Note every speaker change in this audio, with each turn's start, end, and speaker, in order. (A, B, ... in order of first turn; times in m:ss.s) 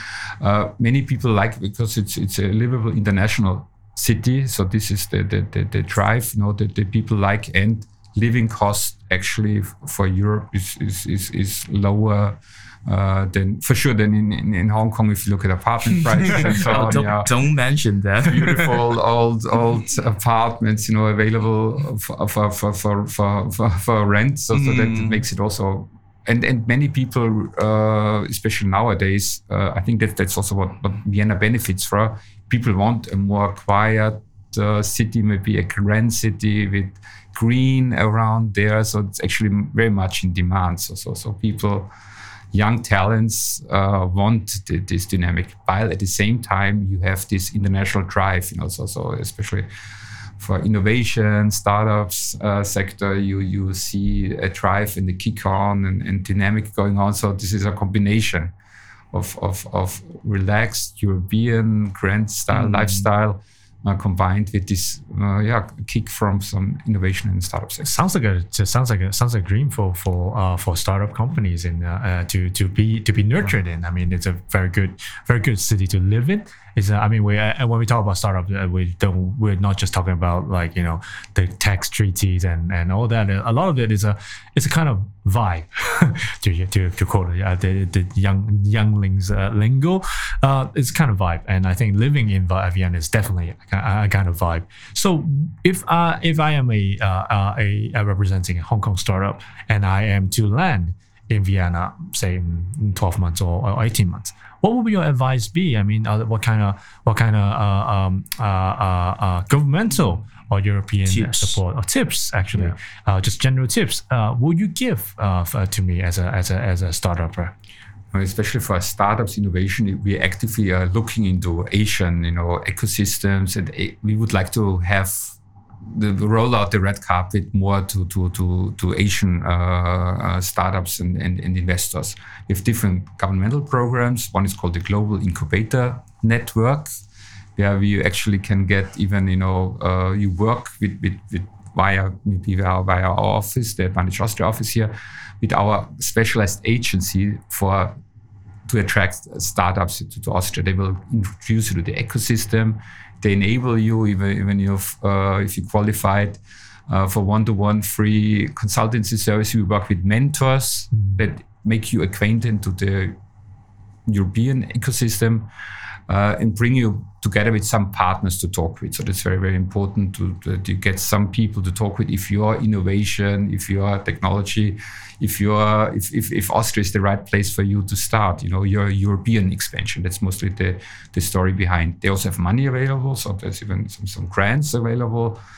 0:00.4-0:17.3 A
0:16.3-0:18.8 B
0:18.2-0:41.9 A
0:24.5-0:25.2 B
0:42.5-0:49.7 A
0:50.4-0:58.5 A
0:59.1-1:07.9 A
1:02.5-1:03.1 B
1:07.8-1:57.5 C
1:51.0-1:51.6 B
1:58.1-2:05.4 A
2:05.9-2:16.9 A
2:17.6-2:27.9 A
2:28.7-2:43.2 A
2:44.1-2:45.5 A
2:46.1-3:05.4 A